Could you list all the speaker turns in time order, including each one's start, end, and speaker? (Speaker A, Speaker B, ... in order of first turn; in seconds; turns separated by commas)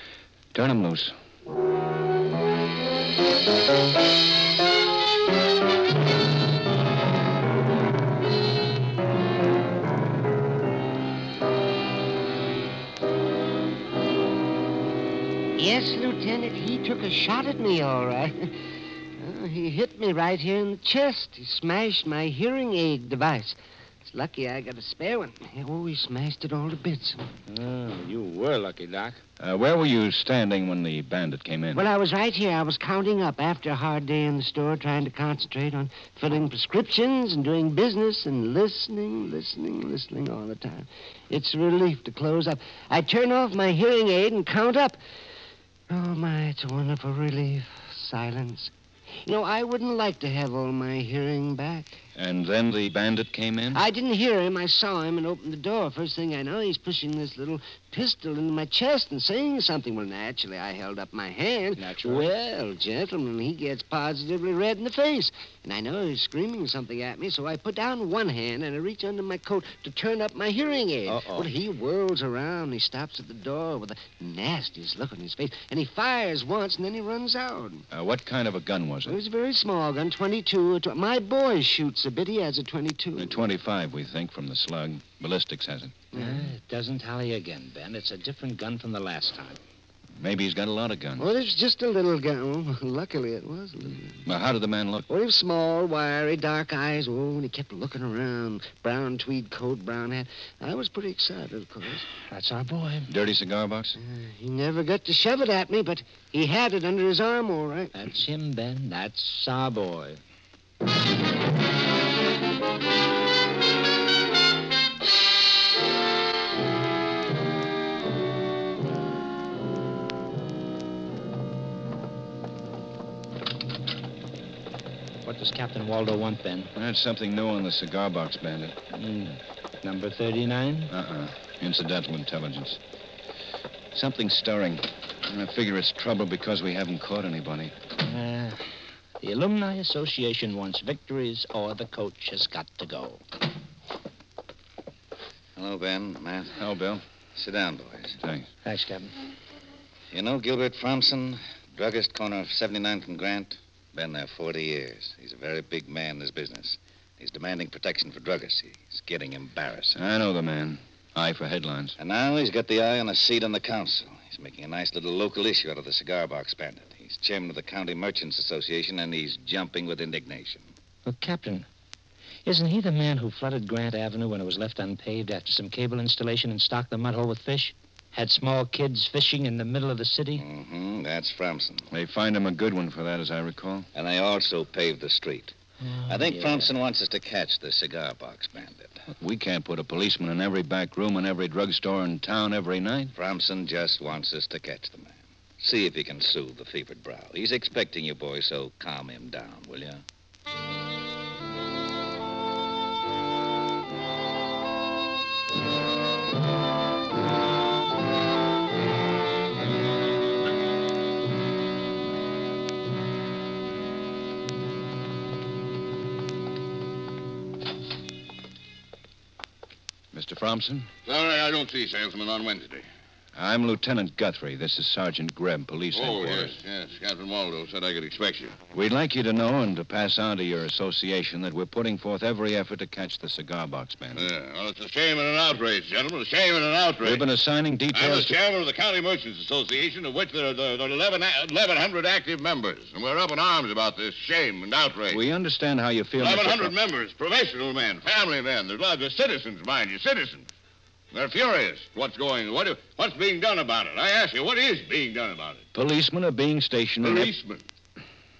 Speaker A: 0.5-1.1, Speaker B: 15.6-18.5, Speaker B: 19.2-27.2, Speaker C: 27.5-29.2, Speaker A: 29.4-31.9, Speaker B: 31.7-45.0, Speaker B: 45.9-48.7, Speaker B: 49.2-52.0, Speaker A: 52.1-53.8, Speaker B: 53.7-77.8, Speaker C: 61.8-62.3, Speaker C: 71.1-71.5, Speaker A: 77.9-79.2, Speaker B: 79.0-83.4, Speaker A: 83.2-85.9, Speaker C: 86.1-89.6, Speaker A: 90.2-91.3, Speaker B: 91.2-94.2, Speaker A: 94.2-95.1, Speaker B: 95.1-102.0, Speaker C: 102.2-103.1, Speaker A: 103.1-104.0, Speaker B: 104.0-107.9, Speaker C: 107.9-110.2, Speaker C: 125.2-126.7, Speaker A: 126.7-128.8, Speaker C: 128.9-130.9, Speaker A: 130.9-132.8, Speaker A: 133.9-137.7, Speaker C: 138.0-138.6, Speaker C: 139.2-143.2, Speaker D: 145.6-146.6, Speaker A: 146.6-147.0, Speaker D: 147.3-148.2, Speaker A: 148.2-148.5, Speaker C: 148.6-149.1, Speaker D: 150.1-160.0, Speaker A: 159.9-161.9, Speaker D: 162.0-170.7, Speaker C: 171.0-171.7, Speaker C: 172.4-180.4, Speaker D: 180.4-181.9, Speaker A: 181.9-183.9, Speaker D: 183.9-185.5, Speaker C: 185.8-186.7, Speaker D: 186.1-189.0, Speaker A: 189.1-193.1, Speaker D: 193.1-200.0, Speaker A: 220.1-220.9, Speaker E: 221.1-222.8, Speaker A: 223.3-226.6, Speaker E: 225.9-228.6, Speaker A: 228.7-234.2, Speaker E: 234.1-237.2, Speaker A: 237.0-238.3, Speaker E: 237.9-245.2, Speaker A: 245.1-246.7, Speaker E: 246.2-250.5, Speaker E: 251.1-255.6, Speaker A: 255.7-257.3, Speaker E: 257.0-257.6